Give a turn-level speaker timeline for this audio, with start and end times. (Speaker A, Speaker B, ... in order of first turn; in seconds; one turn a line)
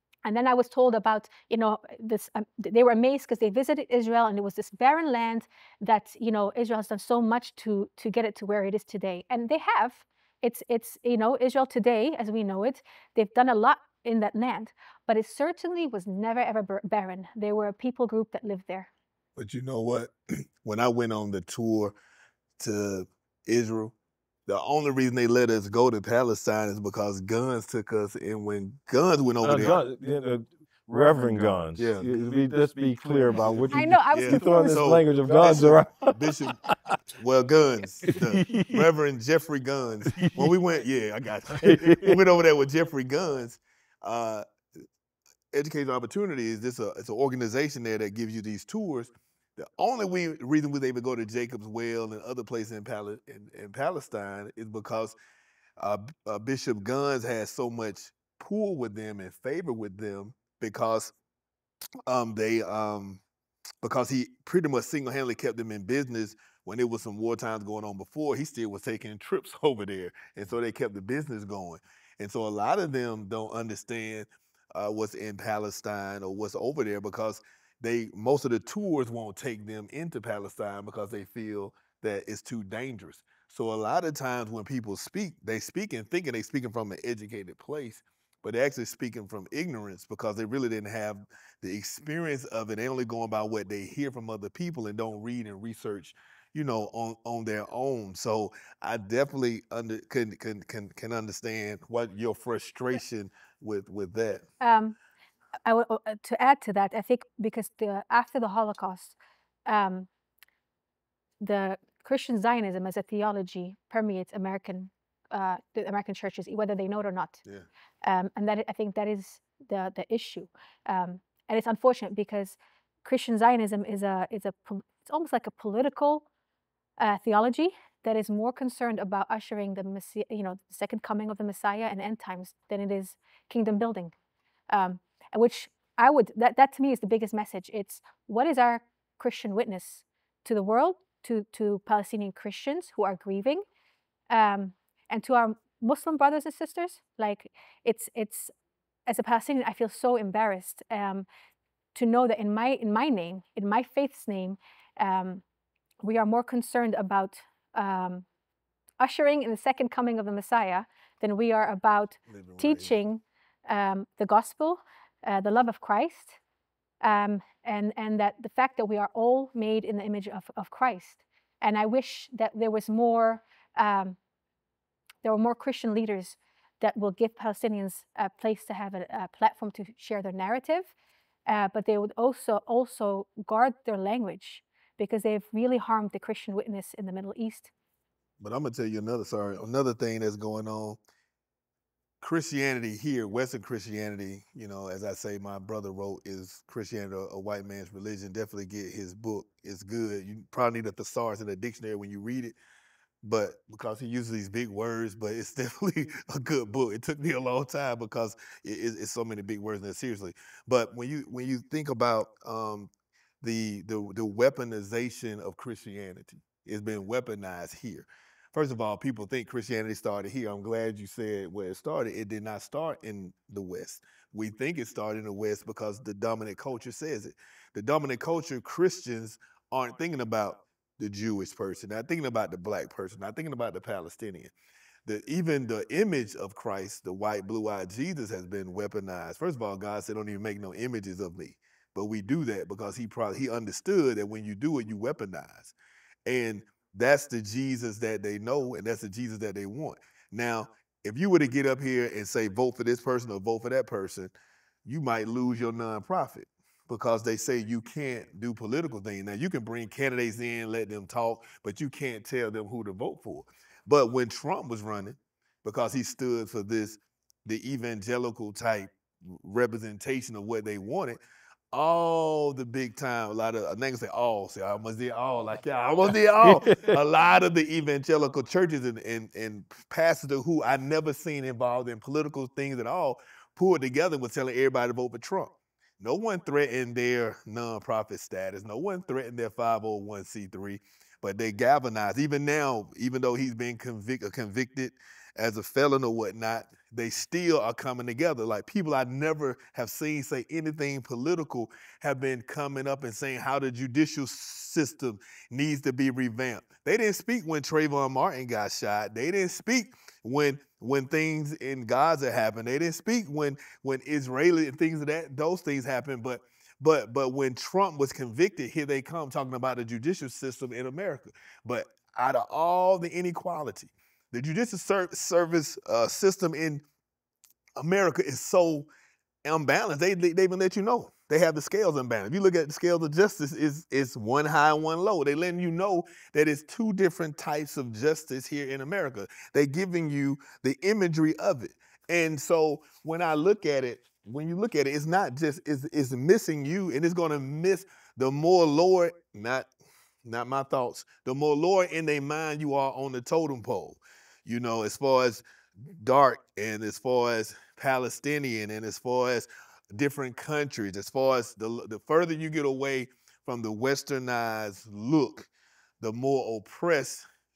Speaker A: 0.2-18.9
Speaker B: 19.4-21.9
Speaker B: 22.6-23.9
Speaker B: 24.5-29.8
Speaker C: 29.4-37.0
Speaker B: 31.8-32.1
Speaker B: 33.3-36.6
Speaker A: 33.7-34.8
Speaker B: 37.1-44.5
Speaker C: 38.1-38.9
Speaker C: 40.1-40.5
Speaker C: 41.5-42.2
Speaker B: 45.5-55.2
Speaker B: 55.8-61.1
Speaker B: 62.1-63.2
Speaker B: 63.8-104.5
Speaker A: 104.6-105.0
Speaker A: 105.7-110.1
Speaker A: 111.4-117.4
Speaker A: 118.0-126.3
Speaker A: 127.0-134.1
Speaker A: 134.7-143.6
Speaker A: 144.3-148.5
Speaker A: 149.1-151.3
Speaker A: 151.9-155.4
Speaker A: 156.0-158.2
Speaker A: 159.0-166.4
Speaker B: 162.3-162.9
Speaker A: 167.0-174.2
Speaker A: 175.2-180.9
Speaker A: 181.5-187.7
Speaker B: 188.4-191.0
Speaker B: 192.2-202.6
Speaker B: 203.2-212.9
Speaker B: 213.4-234.5
Speaker B: 235.1-245.7
Speaker B: 246.3-254.3
Speaker B: 254.8-271.2
Speaker B: 271.7-326.8
Speaker C: 276.4-277.0
Speaker B: 327.8-328.9
Speaker B: 329.4-349.7
Speaker B: 350.2-365.5
Speaker B: 366.0-367.2